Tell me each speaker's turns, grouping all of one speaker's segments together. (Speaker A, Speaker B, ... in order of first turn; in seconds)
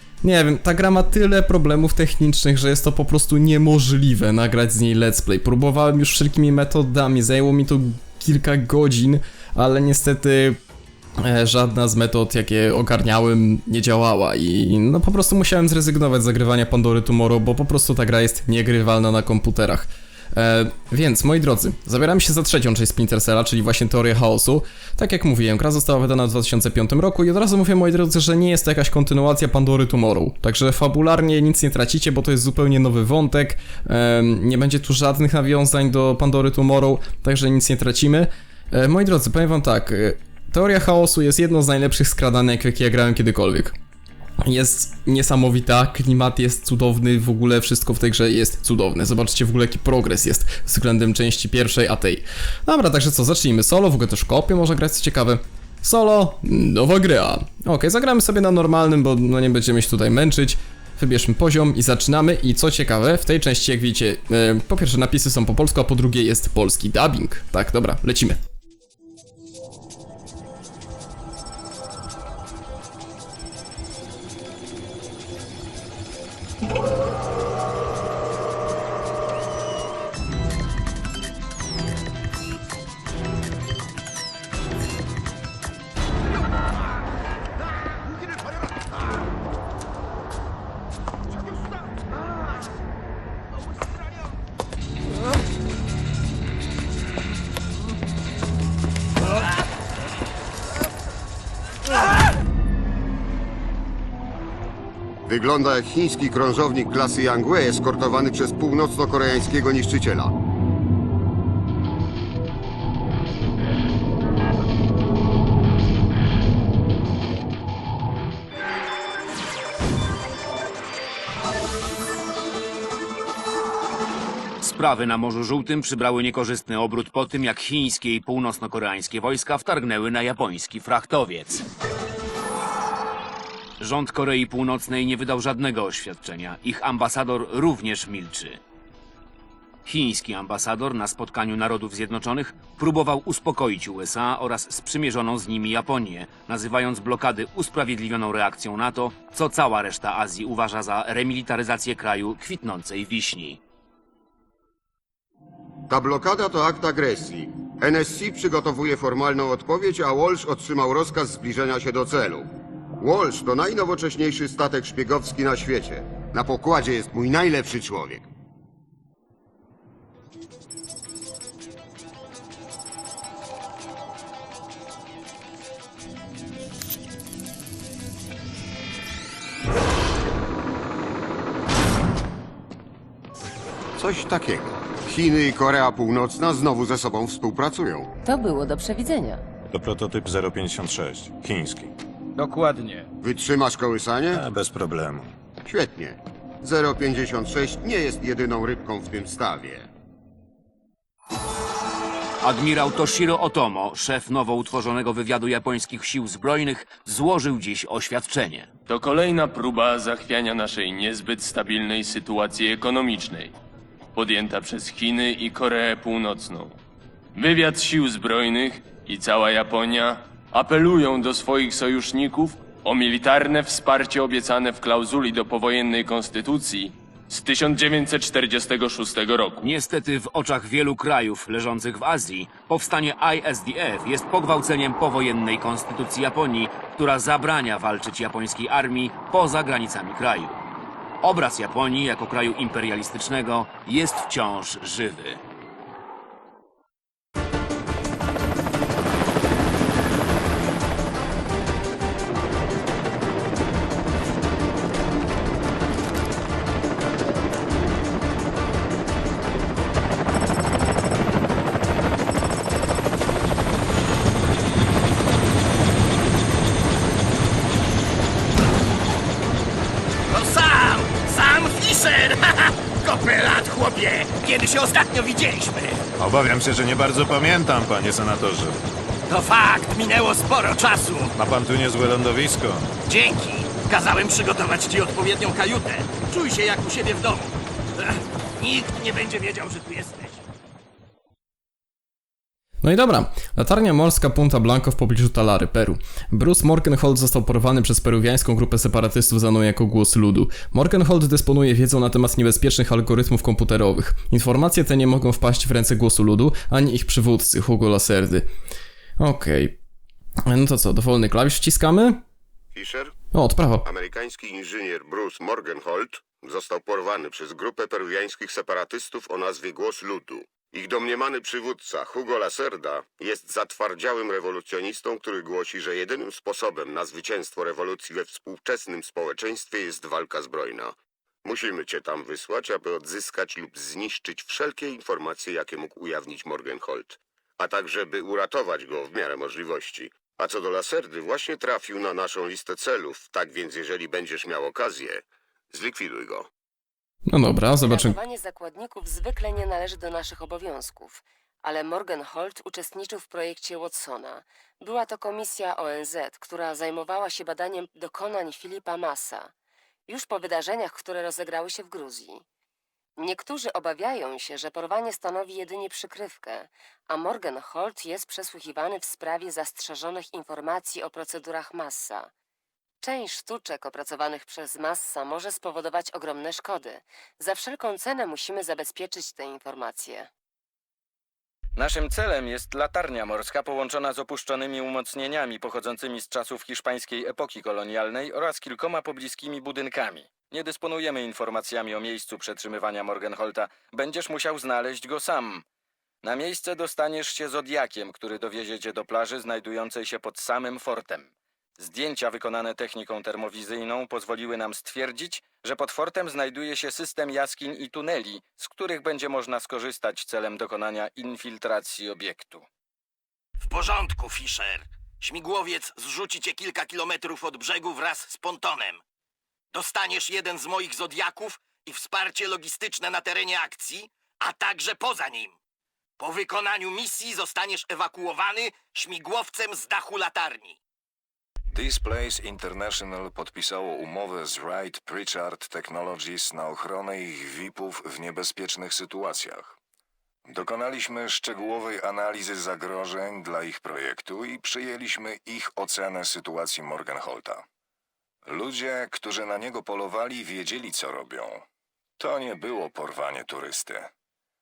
Speaker A: 0.2-10.6, 11.2-43.8, 44.4-68.4, 292.8-308.5, 309.2-309.8, 310.5-312.2, 313.3-313.9, 347.3-348.2
Speaker B: 105.3-110.3, 155.9-162.5, 163.0-168.3, 184.0-188.1, 193.2-194.4, 195.7-199.9, 312.7-313.1, 313.9-346.5
Speaker C: 124.6-131.7, 133.8-138.6, 139.9-153.6, 202.4-208.7, 229.6-240.6, 241.2-245.4
Speaker D: 188.2-189.4, 347.8-359.5, 360.1-362.4, 363.2-372.3, 373.0-380.3
Speaker E: 189.7-192.0, 194.3-195.3, 276.2-278.8, 281.4-282.9
Speaker F: 192.4-193.1, 381.8-395.6, 396.2-412.6
Speaker G: 208.9-213.5, 214.2-216.8, 217.3-229.7
Speaker H: 270.3-276.1, 279.3-281.3, 283.1-290.4, 413.6-419.0, 419.7-425.5, 426.2-430.8
Speaker I: 431.7-439.8, 440.5-447.6, 448.4-451.6, 452.2-454.1